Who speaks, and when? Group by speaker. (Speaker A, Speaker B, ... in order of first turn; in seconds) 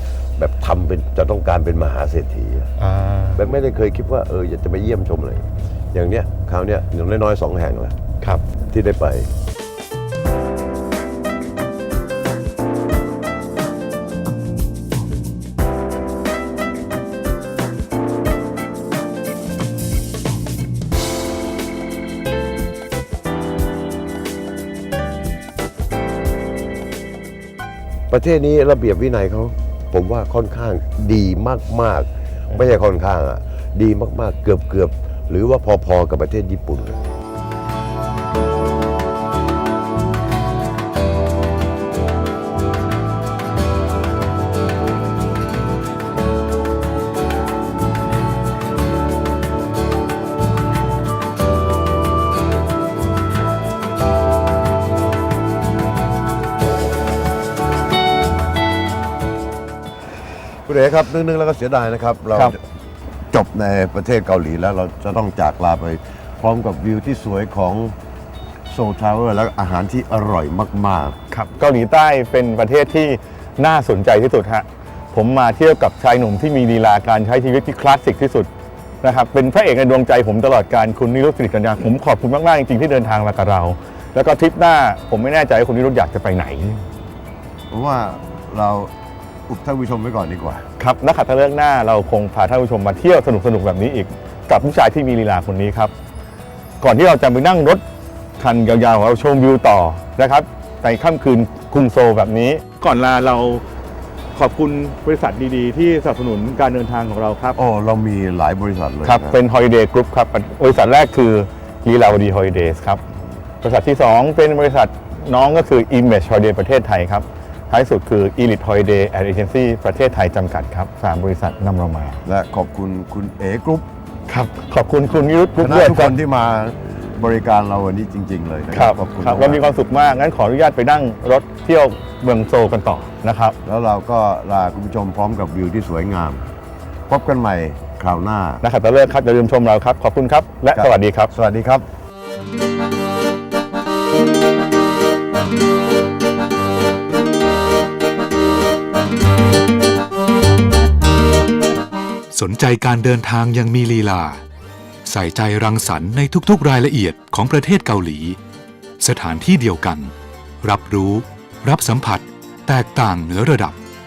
Speaker A: 0.4-2.7, 3.3-7.9, 8.6-9.3, 28.1-37.0, 60.6-62.6, 63.3-67.9, 68.7-71.2, 87.7-88.9, 89.5-90.7, 107.5-109.4, 122.2-123.8, 125.6-129.6, 133.6-136.4, 137.1-138.6, 140.7-141.8
Speaker B: 2.8-3.4, 8.2-8.5, 71.3-78.5, 79.0-86.8, 90.8-95.9, 96.8-97.8, 98.4-103.6, 104.3-107.6, 109.0-113.0, 113.6-122.2, 124.3-126.2, 128.7-133.6, 138.6-141.3
Speaker C: 152.3-154.4, 155.0-158.4, 159.0-163.8